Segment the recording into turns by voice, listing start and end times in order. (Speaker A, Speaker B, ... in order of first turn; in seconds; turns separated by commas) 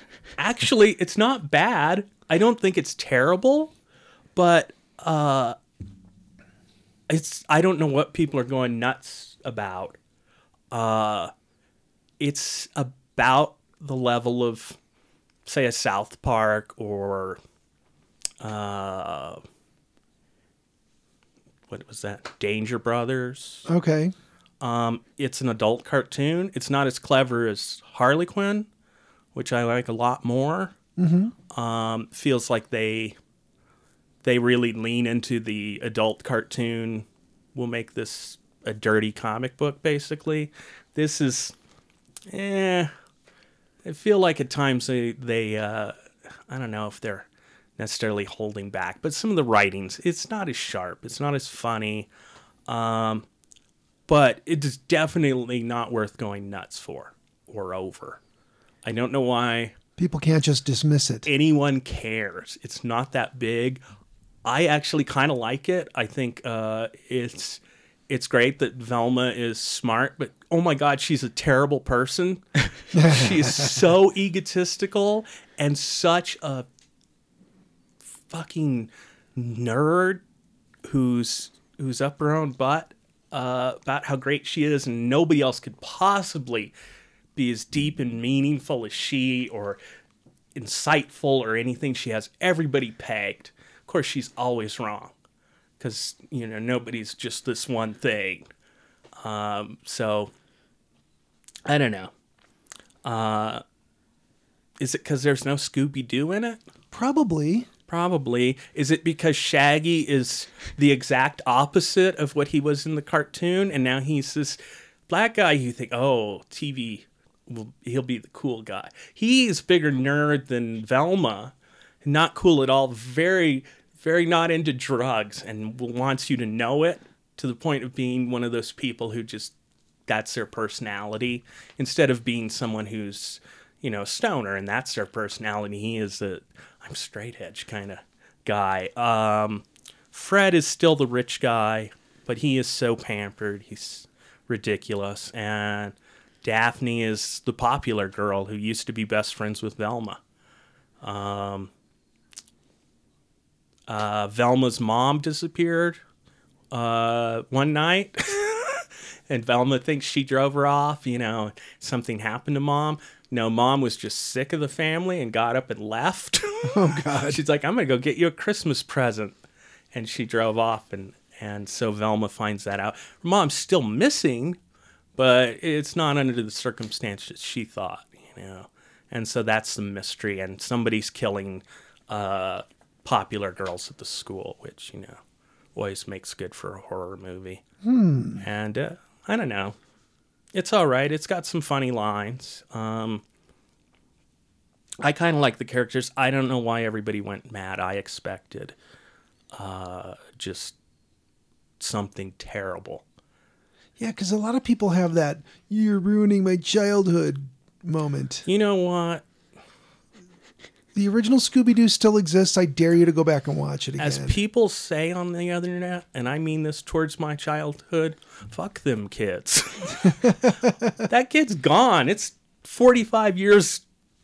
Speaker A: 0.4-3.7, Speaker A: 4.4-5.6, Speaker A: 7.1-10.0, Speaker A: 10.7-11.3, Speaker A: 12.2-14.8, Speaker A: 15.5-17.4, Speaker A: 18.4-19.4, Speaker A: 21.7-23.7, Speaker B: 23.7-24.1, Speaker A: 24.6-28.7, Speaker A: 29.3-30.7, Speaker B: 31.0-31.3, Speaker A: 31.5-33.2, Speaker A: 34.2-41.5, Speaker A: 42.3-42.9, Speaker A: 43.8-45.9, Speaker A: 46.5-47.3, Speaker A: 47.8-52.1, Speaker A: 52.7-53.3, Speaker A: 54.1-58.2, Speaker A: 58.8-59.8, Speaker B: 60.0-61.3, Speaker A: 61.3-63.8, Speaker A: 64.5-76.7, Speaker B: 72.9-73.8, Speaker A: 78.3-80.2, Speaker A: 80.8-86.7, Speaker A: 87.3-89.8, Speaker A: 90.6-95.1, Speaker A: 95.8-98.5, Speaker A: 99.2-100.3, Speaker A: 101.7-102.1, Speaker A: 103.0-103.6, Speaker A: 104.8-106.6, Speaker B: 106.9-107.7, Speaker A: 107.9-121.5, Speaker A: 122.0-129.5, Speaker A: 130.1-150.2, Speaker A: 151.0-151.7, Speaker A: 153.9-156.0, Speaker A: 156.7-169.4, Speaker B: 166.7-167.4, Speaker A: 169.9-174.6, Speaker A: 175.2-185.2, Speaker A: 185.8-187.6, Speaker B: 187.8-188.4, Speaker A: 188.4-189.8, Speaker A: 190.5-193.2, Speaker A: 195.0-198.8, Speaker A: 199.5-200.8, Speaker A: 201.8-203.0, Speaker B: 204.0-208.5, Speaker A: 208.5-209.2, Speaker B: 210.9-214.4, Speaker A: 214.0-220.4, Speaker B: 220.2-220.7, Speaker A: 221.0-223.8